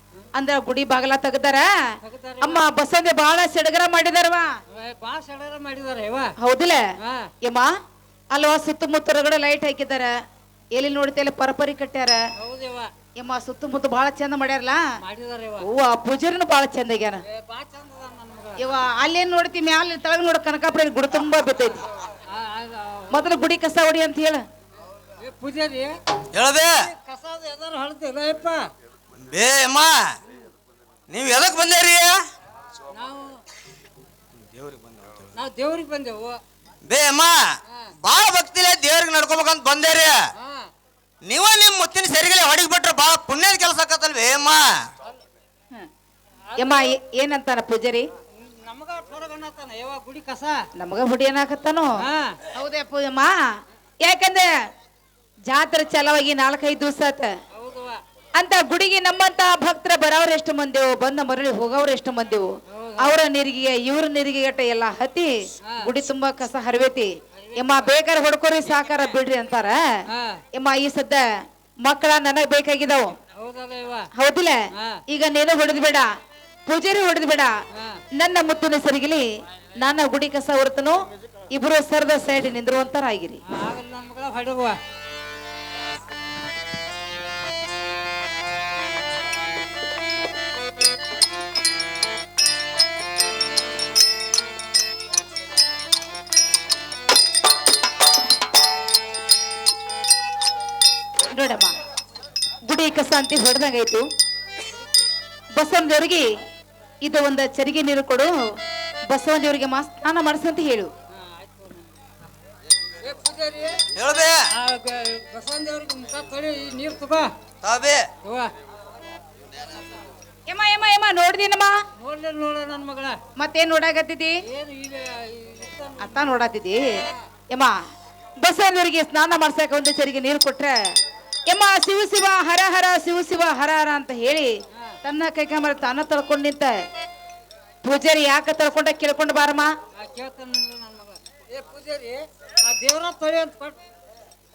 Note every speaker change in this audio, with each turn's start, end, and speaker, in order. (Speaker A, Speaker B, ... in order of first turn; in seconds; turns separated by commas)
Speaker A: 0.3-1.7, Speaker B: 2.0-2.7, Speaker A: 2.4-4.5, Speaker B: 4.7-6.3, Speaker A: 6.4-6.8, Speaker B: 7.0-7.3, Speaker A: 7.4-7.7, Speaker A: 8.3-10.1, Speaker A: 10.7-12.2, Speaker B: 12.4-12.9, Speaker A: 13.2-14.8, Speaker B: 15.0-15.7, Speaker A: 15.6-17.2, Speaker B: 17.3-18.7, Speaker A: 18.6-21.8, Speaker B: 22.1-23.3, Speaker A: 23.1-24.4, Speaker B: 25.2-25.9, Speaker C: 26.3-26.8, Speaker B: 26.7-28.7, Speaker C: 29.3-30.1, Speaker C: 31.1-32.2, Speaker B: 32.9-33.4, Speaker C: 34.4-35.3, Speaker B: 35.3-36.4, Speaker C: 36.8-37.4, Speaker C: 38.0-40.2, Speaker B: 40.4-40.7, Speaker C: 41.2-44.9, Speaker B: 46.5-46.9, Speaker A: 46.6-48.0, Speaker B: 48.4-50.6, Speaker A: 50.8-51.9, Speaker B: 52.0-52.4, Speaker A: 52.5-53.3, Speaker A: 54.0-54.5, Speaker A: 55.5-57.3, Speaker B: 57.5-58.0, Speaker A: 58.4-62.5, Speaker B: 62.7-63.1, Speaker A: 63.0-69.8, Speaker B: 67.3-67.9, Speaker B: 70.1-70.4, Speaker A: 70.5-71.2, Speaker A: 71.8-73.1, Speaker B: 73.3-74.1, Speaker A: 74.2-74.5, Speaker A: 75.1-76.1, Speaker A: 76.7-77.5, Speaker A: 78.2-79.2, Speaker A: 79.8-81.0, Speaker A: 81.5-83.4, Speaker B: 83.5-84.8, Speaker A: 101.3-101.8, Speaker A: 102.6-104.0, Speaker A: 105.5-106.3, Speaker A: 107.0-108.3, Speaker A: 109.1-110.9, Speaker B: 111.1-111.9, Speaker B: 113.0-113.8, Speaker C: 113.9-114.4, Speaker B: 114.5-117.3, Speaker C: 117.6-118.0, Speaker B: 118.2-118.5, Speaker A: 120.5-121.8, Speaker B: 122.0-123.2, Speaker A: 123.3-124.3, Speaker B: 124.5-126.3, Speaker A: 126.0-127.7, Speaker A: 128.4-130.7, Speaker A: 131.5-134.5, Speaker A: 135.0-136.7, Speaker A: 137.8-139.7, Speaker B: 140.0-143.8